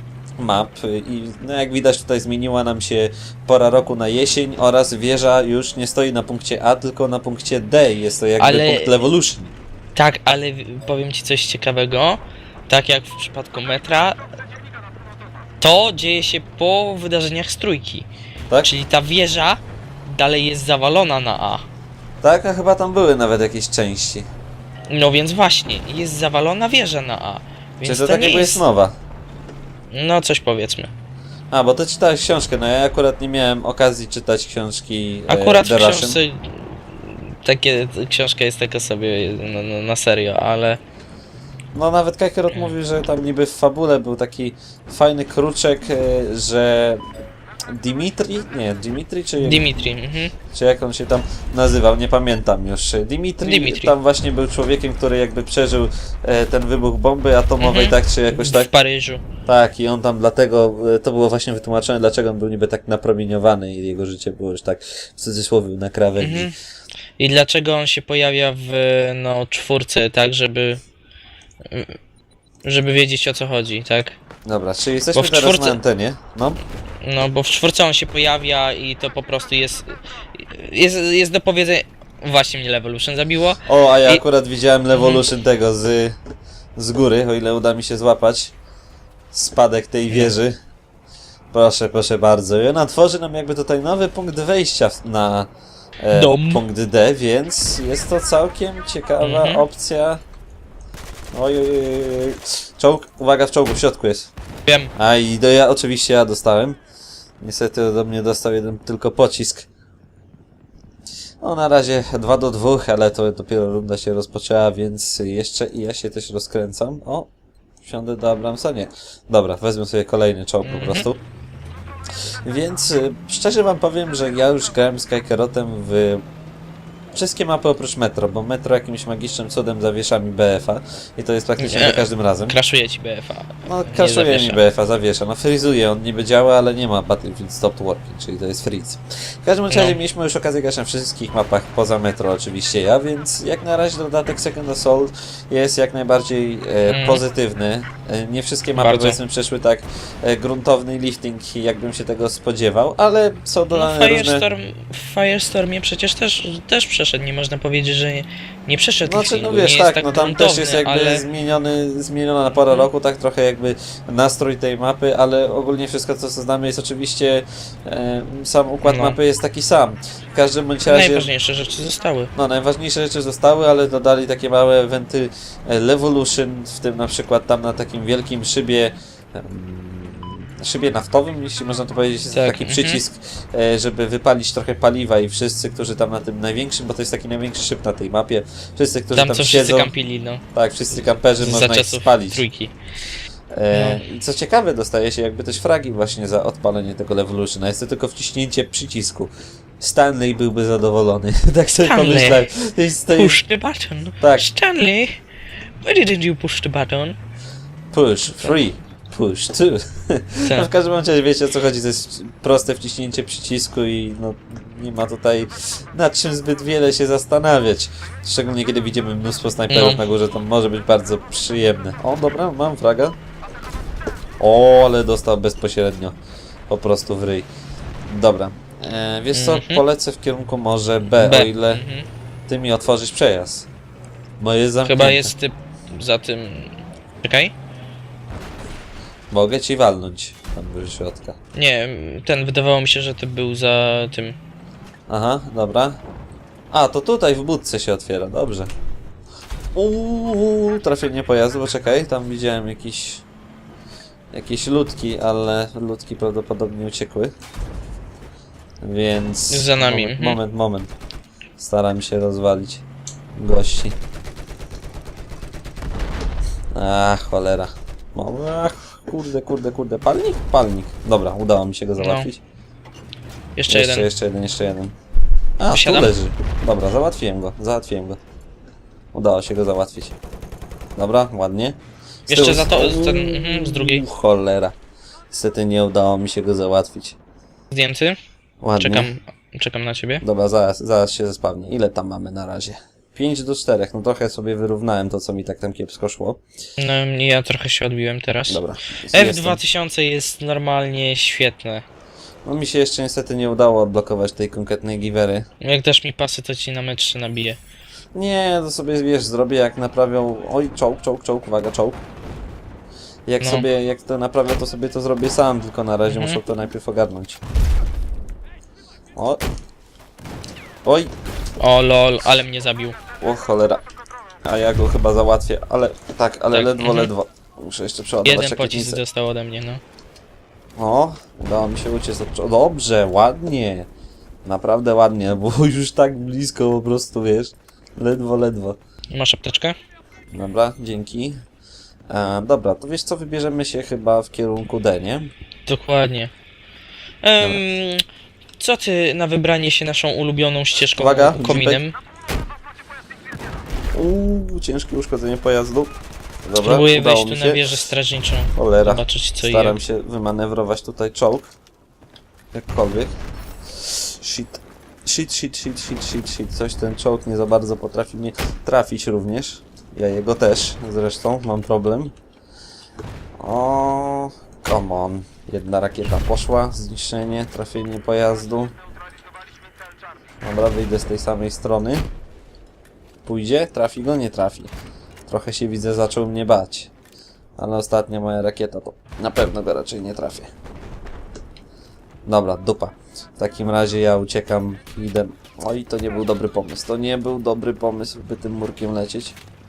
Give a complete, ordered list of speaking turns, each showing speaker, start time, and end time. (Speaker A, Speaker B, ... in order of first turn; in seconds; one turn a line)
Speaker A: 0.4-9.5
Speaker B: 8.4-8.9
Speaker B: 9.9-14.2
Speaker B: 15.6-18.1
Speaker B: 18.6-21.6
Speaker A: 22.2-24.3
Speaker B: 24.9-28.6
Speaker A: 27.9-29.0
Speaker B: 29.9-30.9
Speaker A: 31.5-36.2
Speaker B: 35.3-40.8
Speaker A: 41.8-47.0
Speaker A: 47.7-49.7
Speaker B: 49.4-50.3
Speaker A: 50.5-58.7
Speaker B: 53.4-53.9
Speaker B: 57.6-59.2
Speaker A: 59.5-66.5
Speaker B: 66.2-66.5
Speaker B: 67.2-70.8
Speaker B: 71.6-72.0
Speaker B: 72.6-74.2
Speaker A: 74.5-76.6
Speaker B: 75.2-75.8
Speaker B: 77.0-84.2
Speaker A: 83.7-86.2
Speaker B: 85.0-85.2
Speaker A: 86.8-88.5
Speaker A: 89.3-90.5
Speaker A: 91.5-95.5
Speaker A: 96.0-100.2
Speaker B: 96.1-96.6
Speaker B: 99.2-99.6
Speaker A: 101.3-104.3
Speaker B: 104.7-104.9
Speaker A: 105.0-106.8
Speaker A: 107.4-109.7
Speaker A: 111.4-117.3
Speaker A: 117.8-121.2
Speaker B: 120.6-121.1
Speaker A: 122.5-126.2
Speaker A: 127.2-132.6
Speaker B: 131.6-134.6
Speaker A: 133.6-154.5
Speaker B: 139.7-140.0
Speaker B: 146.9-147.2
Speaker B: 148.8-149.2
Speaker B: 153.7-161.2
Speaker A: 159.0-171.3
Speaker B: 168.8-169.2
Speaker B: 170.9-172.3
Speaker A: 172.3-189.9
Speaker B: 182.3-183.0
Speaker B: 189.2-190.4
Speaker A: 190.5-192.4
Speaker B: 191.4-192.8
Speaker A: 193.5-203.4
Speaker B: 193.7-194.0
Speaker B: 201.8-202.4
Speaker B: 203.1-205.2
Speaker A: 204.2-204.5
Speaker B: 205.8-207.2
Speaker A: 207.9-223.2
Speaker B: 210.4-210.7
Speaker B: 219.7-220.0
Speaker A: 224.4-226.2
Speaker A: 226.7-227.5
Speaker A: 228.1-231.8
Speaker B: 229.3-229.8
Speaker B: 231.2-232.1
Speaker A: 232.5-233.7
Speaker A: 234.4-235.3
Speaker B: 234.8-237.5
Speaker A: 239.3-241.4
Speaker B: 241.5-244.4
Speaker A: 245.1-246.0
Speaker A: 246.7-248.7
Speaker A: 249.8-253.2
Speaker A: 254.3-257.4
Speaker A: 258.8-260.9
Speaker B: 259.5-260.4
Speaker A: 261.6-262.8
Speaker A: 263.4-264.0
Speaker A: 266.7-272.4
Speaker B: 272.0-272.3
Speaker B: 273.6-274.1
Speaker A: 273.7-274.9
Speaker A: 275.6-278.2
Speaker B: 275.7-276.1
Speaker A: 279.1-280.2
Speaker A: 281.0-284.8
Speaker B: 282.3-284.1
Speaker A: 285.3-287.2
Speaker B: 287.7-288.2
Speaker A: 288.6-289.1
Speaker B: 288.8-290.2
Speaker A: 290.2-296.4
Speaker B: 296.8-298.6
Speaker A: 298.5-299.6
Speaker B: 299.1-301.9
Speaker A: 302.4-305.5
Speaker B: 305.6-307.6
Speaker A: 308.1-312.0
Speaker A: 313.3-317.4
Speaker B: 316.1-316.4
Speaker A: 319.1-319.4
Speaker A: 320.9-321.1
Speaker B: 321.6-323.0
Speaker A: 323.2-323.8
Speaker A: 324.4-329.0
Speaker B: 326.5-327.1
Speaker B: 328.2-329.8
Speaker A: 330.8-333.9
Speaker A: 334.4-338.8
Speaker B: 339.1-339.8
Speaker A: 340.3-341.4
Speaker A: 342.1-345.3
Speaker B: 345.7-346.3
Speaker B: 347.2-348.0
Speaker B: 348.6-351.9
Speaker A: 350.9-351.8
Speaker A: 353.9-355.9
Speaker A: 356.4-357.7
Speaker B: 356.6-359.8
Speaker A: 358.6-361.5
Speaker A: 362.5-363.1
Speaker A: 363.8-372.1
Speaker A: 373.4-378.7
Speaker A: 380.4-382.1
Speaker A: 383.2-384.7
Speaker A: 385.3-386.9
Speaker A: 387.6-390.5
Speaker A: 392.3-399.4